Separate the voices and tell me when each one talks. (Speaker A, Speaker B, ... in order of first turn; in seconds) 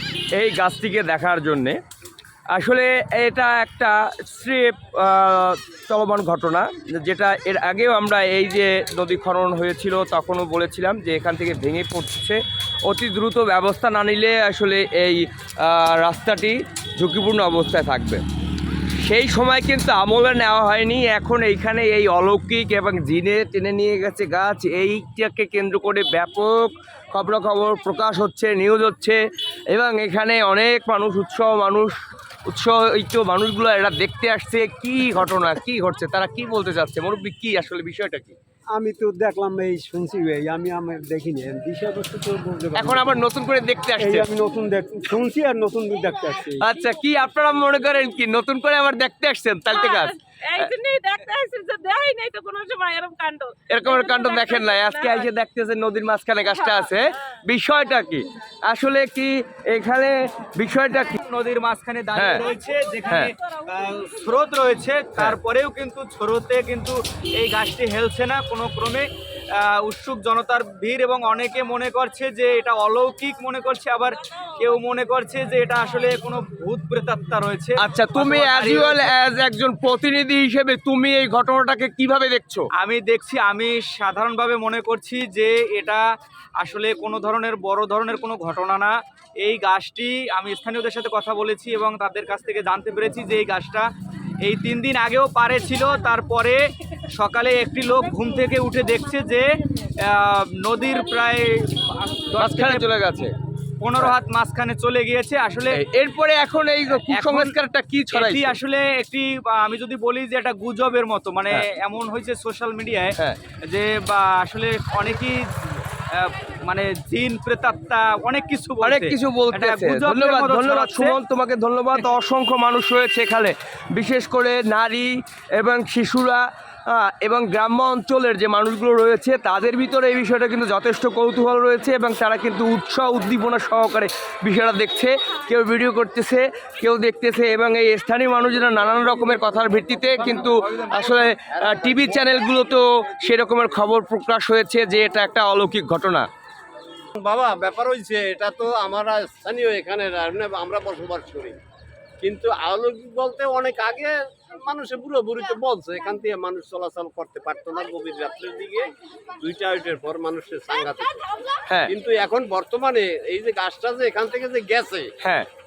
Speaker A: 0.3-1.8, 2.5-18.2, 19.0-29.2, 29.7-38.4, 42.8-44.3, 46.6-50.7, 53.7-61.1, 62.1-62.4, 77.8-82.7, 102.3-103.3, 105.7-108.5, 118.8-146.3, 165.2-165.5
Speaker B: 38.8-43.1, 44.0-46.6
Speaker C: 49.7-55.3
Speaker D: 61.1-79.1, 82.8-86.1, 86.6-93.9, 94.4-103.3, 103.8-105.8, 107.0-107.5, 108.1-121.2
Speaker E: 141.5-142.3, 147.2-151.6, 152.2-161.2, 161.9-165.1